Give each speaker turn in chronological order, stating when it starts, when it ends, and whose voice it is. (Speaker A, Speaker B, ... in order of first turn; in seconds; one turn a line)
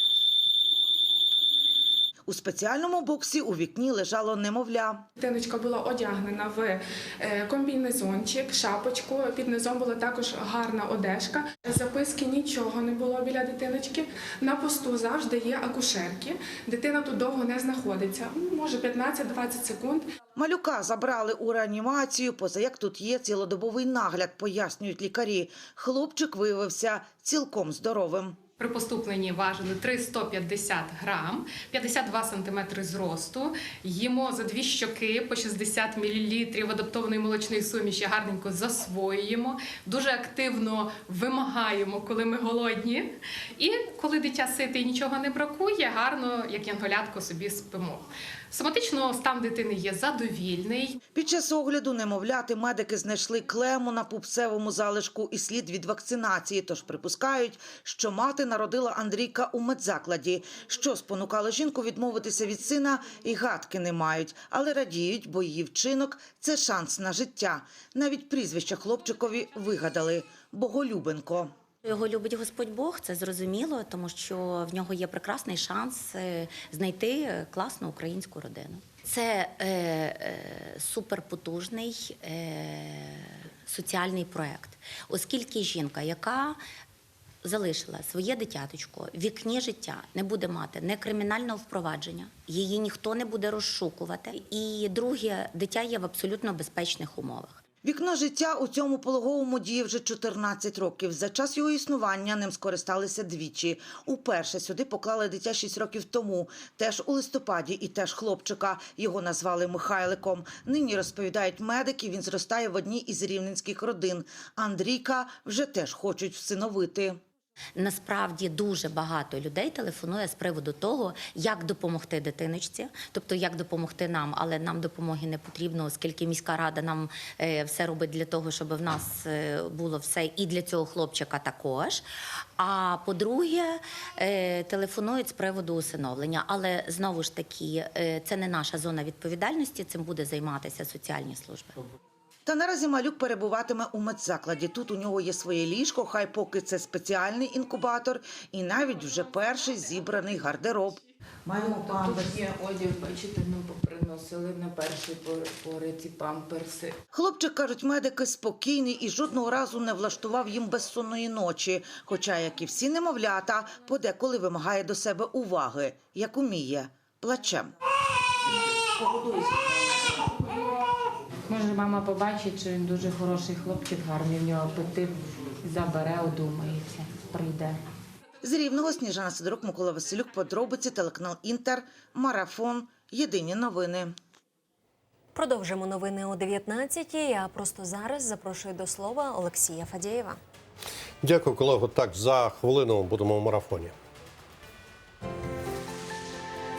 Speaker A: 2.3-5.1
Speaker B: 5.2-6.8
Speaker B: 7.3-20.0
Speaker A: 20.4-28.4
Speaker C: 28.6-51.0
Speaker A: 51.1-71.5
Speaker D: 71.8-86.6
Speaker D: 87.4-97.6
Speaker A: 97.8-117.2
Speaker D: 117.8-132.1
Speaker D: 132.6-141.8
Speaker A: 142.5-151.0
Speaker E: 151.5-157.0
Speaker A: 157.1-167.7
Speaker E: 171.5-177.8
Speaker A: 178.4-184.1
Speaker F: 185.3-190.4
Speaker G: 191.2-193.9